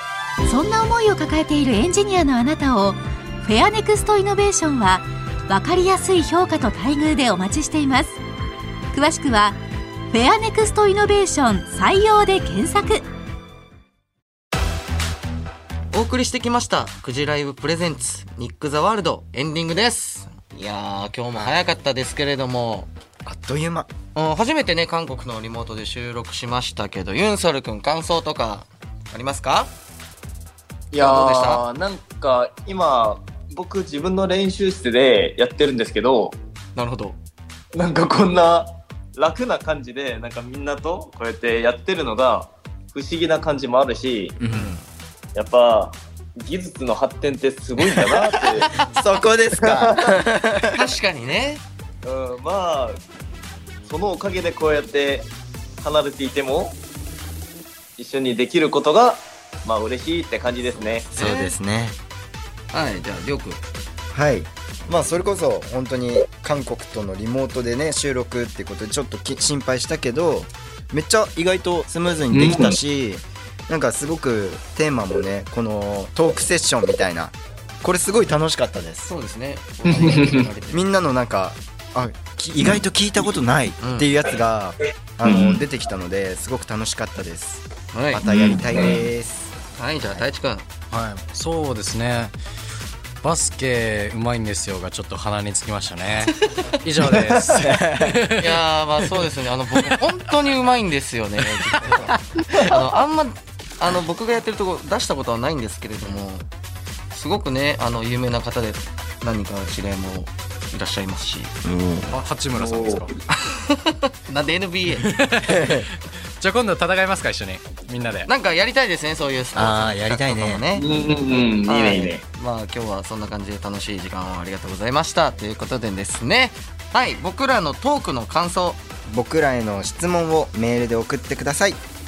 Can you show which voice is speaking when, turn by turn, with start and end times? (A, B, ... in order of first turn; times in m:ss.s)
0:00.5-0:08.2 A
0:08.9-0:09.6 A
0:10.1-0:13.1 A
0:15.9-0:22.9 B
0:23.2-0:23.9 C
0:24.2-0:29.7 B
0:30.9-0:36.4 D
0:31.0-0:31.6 B
0:36.8-0:37.2 B
0:37.7-0:44.4 D
0:44.4-0:44.8 C
0:44.5-0:44.8 B
0:45.4-0:48.7 D
0:48.9-0:50.8 C
0:49.6-0:50.0 D
0:50.7-0:51.6 B
0:52.0-0:53.0 D
0:53.9-0:55.3 D
0:55.8-0:56.8 D
0:58.0-1:01.1 D
1:00.7-1:01.6 B
1:01.2-1:02.0 C
1:02.7-1:03.6 B
1:04.1-1:19.1 C
1:12.3-1:12.8 D
1:19.0-1:20.8 B
1:19.9-1:20.5 D
1:20.7-1:29.5 C
1:23.8-1:24.1 B
1:25.2-1:25.6 D
1:27.9-1:28.3 B
1:28.3-1:29.1 D
1:29.8-1:30.7 B
1:30.9-1:32.3 E
1:33.2-1:38.4 E
1:37.2-1:37.6 D
1:37.6-1:38.3 C
1:38.4-1:46.5 B
1:47.1-1:51.5 B
1:51.6-1:52.2 C
1:52.1-1:53.1 E
1:52.5-1:53.1 D
1:54.2-1:55.1 B
1:54.9-1:58.3 E
1:55.5-1:55.9 C
1:58.2-2:00.9 B
1:59.6-2:00.6 C
2:00.8-2:02.2 D
2:01.6-2:08.8 B
2:09.1-2:11.8 C